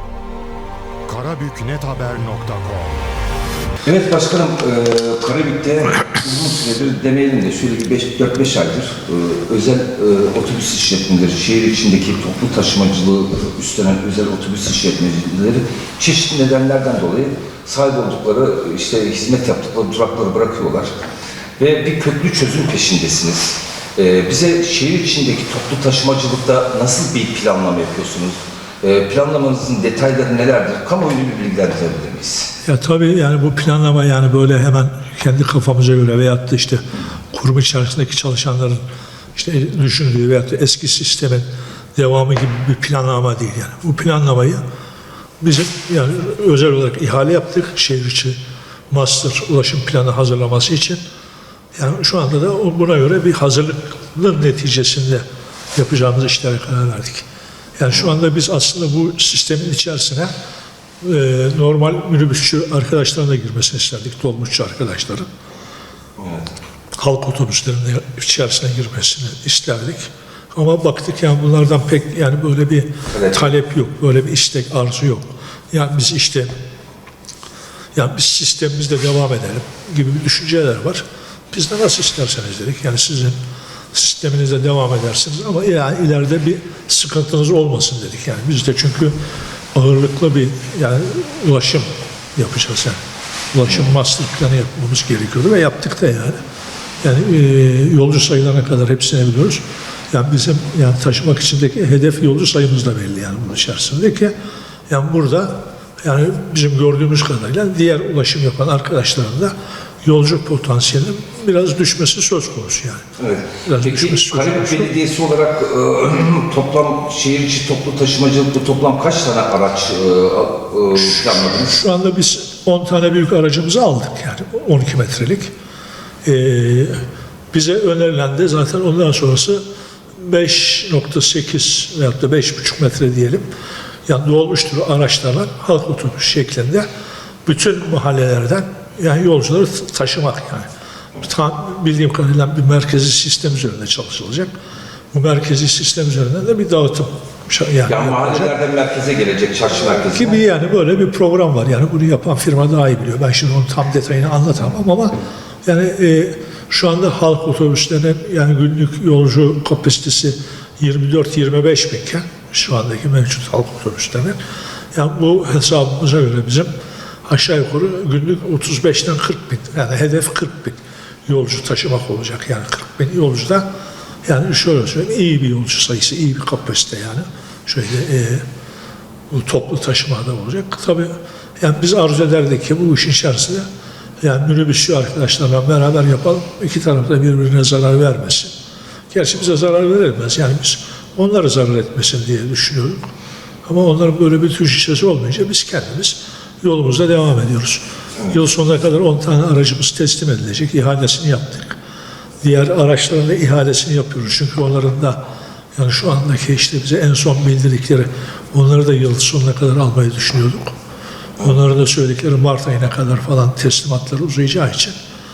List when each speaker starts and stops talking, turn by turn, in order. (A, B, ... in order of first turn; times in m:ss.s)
0:01.1-0:03.1 A
0:03.8-0:20.9 B
0:21.6-0:32.6 B
0:32.6-0:38.8 C
0:39.4-0:44.6 C
0:45.4-0:48.4 C
0:48.9-0:51.0 C
0:51.8-0:55.2 C
0:55.8-0:57.2 C
0:57.8-1:00.3 C
1:01.0-1:05.3 C
1:06.2-1:06.6 B
1:07.0-1:16.5 C
1:13.1-1:13.6 B
1:17.9-1:23.4 C
1:23.9-1:29.2 C
1:29.7-1:33.0 C
1:33.5-1:36.4 C
1:37.0-1:44.3 C
1:44.9-1:53.0 C
1:53.2-2:01.8 B
1:53.7-1:55.0 C
2:01.5-2:05.5 C
2:06.2-2:09.6 C
2:10.2-2:13.4 C
2:14.1-2:16.9 C
2:17.4-2:20.7 C
2:21.2-2:24.5 C
2:25.1-2:28.6 C
2:27.9-2:30.4 B
2:29.9-2:44.4 C
2:44.9-2:46.7 C
2:47.2-2:53.7 C
2:54.2-2:58.4 C
2:59.3-3:03.7 C
3:04.2-3:08.5 C
3:09.1-3:13.0 C
3:13.7-3:21.8 C
3:22.4-3:25.2 C
3:25.8-3:30.7 C
3:31.4-3:35.0 C